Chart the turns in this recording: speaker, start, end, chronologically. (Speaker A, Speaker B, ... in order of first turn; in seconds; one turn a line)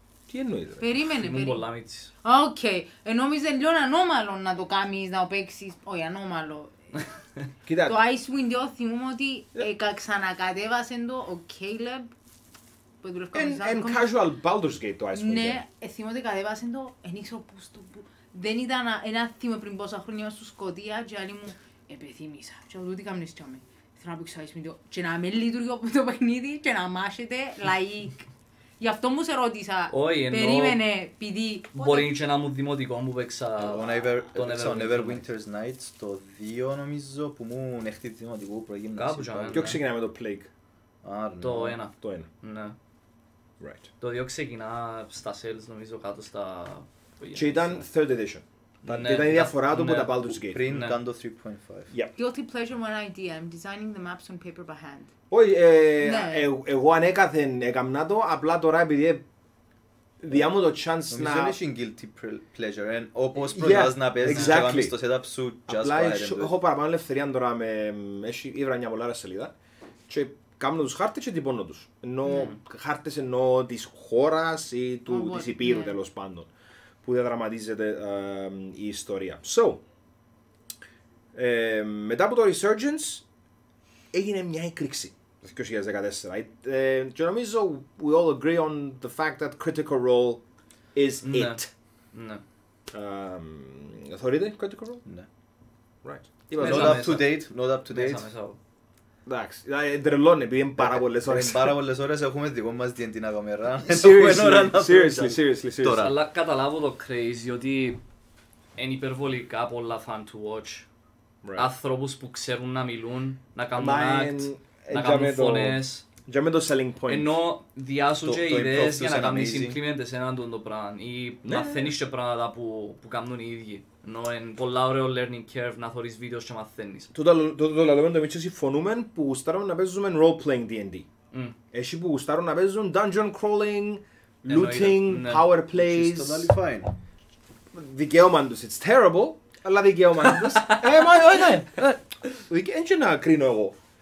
Speaker A: 0.3-0.8
Speaker B: 0.8-1.6
Speaker C: 1.0-2.1
Speaker B: 2.2-6.7
Speaker A: 7.7-8.0
Speaker B: 7.8-12.1
Speaker B: 13.0-14.1
Speaker A: 13.3-15.6
Speaker B: 15.1-28.2
Speaker B: 28.8-32.1
Speaker C: 29.9-30.8
Speaker C: 31.7-35.2
Speaker D: 33.6-39.8
Speaker C: 39.0-39.8
Speaker A: 39.5-40.5
Speaker D: 41.0-41.8
Speaker C: 41.4-42.7
Speaker A: 42.0-42.2
Speaker A: 43.6-43.9
Speaker C: 44.0-47.8
Speaker A: 47.3-50.6
Speaker C: 48.9-51.0
Speaker D: 50.3-51.9
Speaker B: 52.1-55.1
Speaker A: 55.3-59.2
Speaker B: 56.0-56.5
Speaker A: 60.2-61.6
Speaker D: 61.1-66.5
Speaker A: 63.5-65.0
Speaker C: 64.2-64.6
Speaker A: 65.7-69.5
Speaker A: 70.1-76.5
Speaker B: 75.1-76.0
Speaker A: 77.0-79.8
Speaker A: 81.3-83.2
Speaker A: 84.1-91.7
Speaker C: 91.2-92.4
Speaker A: 92.9-95.0
Speaker A: 96.0-97.1
Speaker C: 96.5-98.6
Speaker D: 96.6-98.3
Speaker A: 99.2-101.7
Speaker D: 100.8-106.2
Speaker A: 103.9-106.0
Speaker C: 106.0-108.0
Speaker C: 108.8-110.8
Speaker A: 111.4-111.7
Speaker C: 111.5-116.0
Speaker A: 113.7-117.4
Speaker C: 117.1-127.1
Speaker D: 118.2-119.8
Speaker A: 121.4-121.9
Speaker A: 127.1-131.1
Speaker A: 131.7-136.5
Speaker C: 134.5-135.5
Speaker D: 135.7-136.9
Speaker A: 137.7-143.8
Speaker C: 140.2-141.6